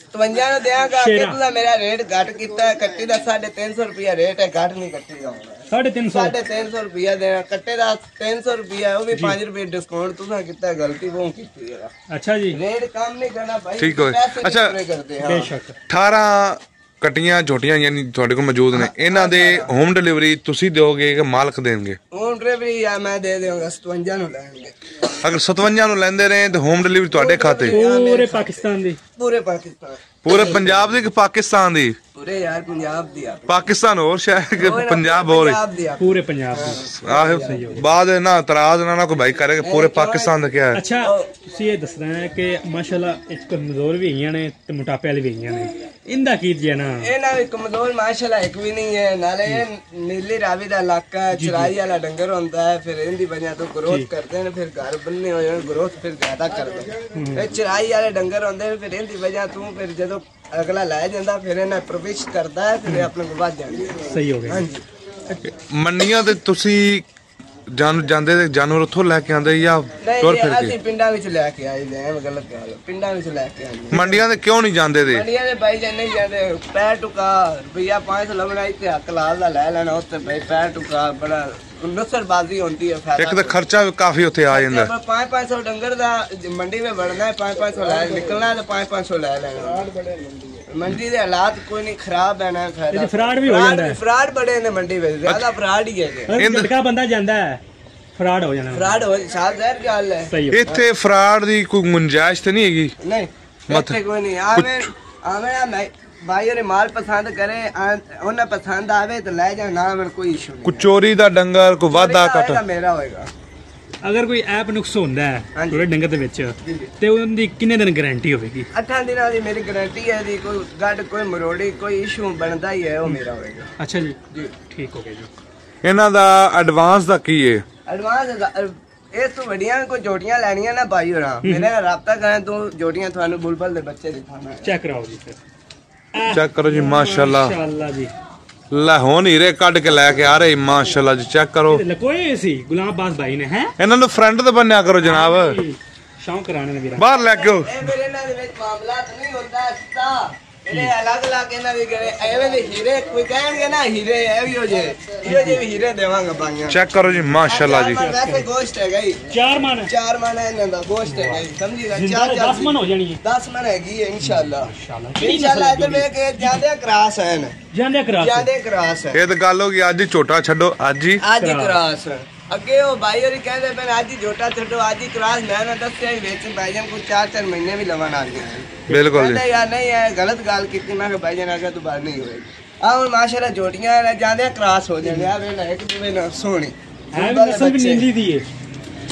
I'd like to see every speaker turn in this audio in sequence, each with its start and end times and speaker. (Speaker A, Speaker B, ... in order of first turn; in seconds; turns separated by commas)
Speaker A: 0.1-11.9, Speaker B: 0.9-1.4, Speaker B: 5.7-6.3, Speaker B: 9.1-9.4, Speaker B: 12.1-12.6, Speaker A: 12.5-15.5, Speaker C: 13.8-14.7, Speaker B: 15.2-15.8, Speaker C: 15.9-22.0, Speaker A: 18.7-19.7, Speaker A: 22.1-24.8, Speaker C: 25.2-27.8, Speaker A: 27.1-30.8, Speaker B: 27.7-29.0, Speaker C: 30.2-31.9, Speaker A: 32.1-33.6, Speaker C: 33.5-35.6, Speaker A: 34.6-37.8, Speaker B: 36.0-37.9, Speaker C: 37.0-40.8, Speaker A: 39.6-41.3, Speaker B: 40.7-47.1, Speaker A: 47.0-64.8, Speaker B: 51.3-51.7, Speaker B: 57.1-57.5, Speaker B: 64.0-64.7, Speaker C: 65.4-67.0, Speaker C: 67.7-70.7, Speaker A: 70.0-74.2, Speaker C: 73.9-75.2, Speaker A: 75.1-83.6, Speaker C: 83.2-84.9, Speaker A: 84.5-89.8, Speaker A: 90.7-96.3, Speaker B: 92.9-94.0, Speaker B: 96.3-97.6, Speaker C: 96.3-96.7, Speaker B: 98.1-99.0, Speaker A: 98.7-100.8, Speaker B: 100.3-100.6, Speaker C: 100.5-102.9, Speaker A: 103.0-110.9, Speaker C: 103.7-104.0, Speaker C: 104.5-104.9, Speaker C: 110.6-112.6, Speaker A: 111.9-113.3, Speaker B: 114.0-118.7, Speaker A: 115.5-115.8, Speaker A: 116.6-116.9, Speaker A: 118.7-123.7, Speaker B: 123.8-125.3, Speaker C: 125.8-127.6, Speaker A: 127.8-134.7, Speaker B: 131.4-131.7, Speaker B: 134.6-135.4, Speaker B: 136.1-138.1, Speaker C: 136.2-137.6, Speaker C: 138.7-141.8, Speaker B: 141.7-143.7, Speaker C: 143.8-145.6, Speaker B: 145.0-147.1, Speaker C: 146.9-147.8, Speaker A: 147.0-156.8, Speaker B: 155.2-155.6, Speaker C: 156.7-158.1, Speaker A: 157.5-167.6, Speaker B: 158.0-158.5, Speaker B: 159.3-159.9, Speaker B: 161.0-163.2, Speaker B: 164.2-166.6, Speaker B: 167.7-168.5, Speaker A: 168.2-169.2, Speaker C: 169.1-171.2, Speaker A: 171.2-188.1, Speaker B: 171.4-171.8, Speaker C: 178.9-179.4, Speaker B: 185.0-185.3, Speaker B: 187.1-188.5